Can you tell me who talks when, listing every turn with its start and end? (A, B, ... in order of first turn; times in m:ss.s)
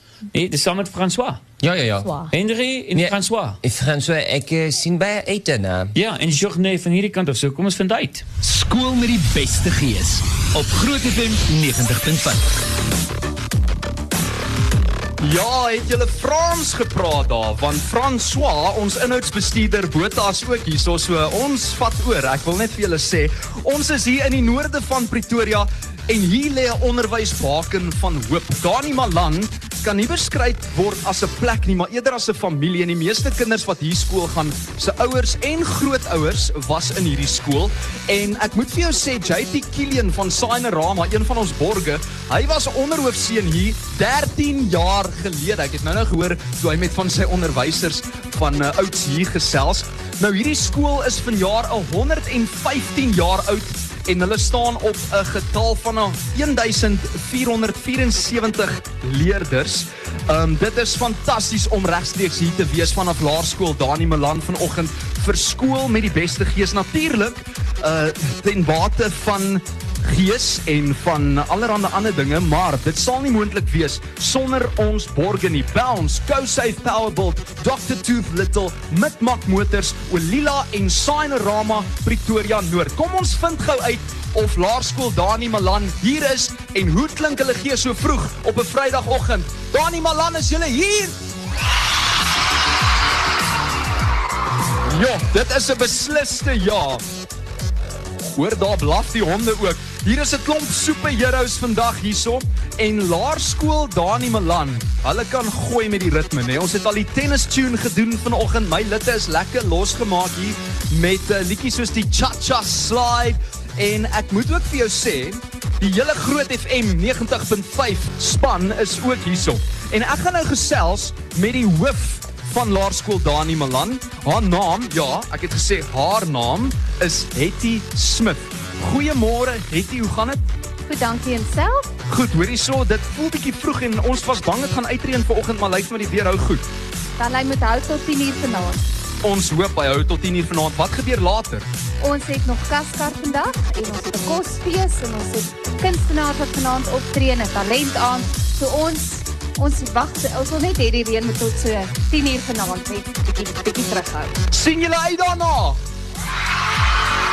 0:00.3-0:01.4 A
0:01.6-0:02.2 B
0:02.3-0:03.6 A
0:02.9-0:05.9 B
0:05.9-0:08.2 A
0:08.4-0:12.4 C
0:15.2-1:31.2 D
1:34.9-1:37.0 D
1:38.3-2:10.4 D
2:10.8-2:11.9 E
2:12.1-2:16.6 D
2:17.2-2:18.8 E
2:19.2-2:21.7 D
2:22.0-2:34.4 E
2:34.5-2:35.8 D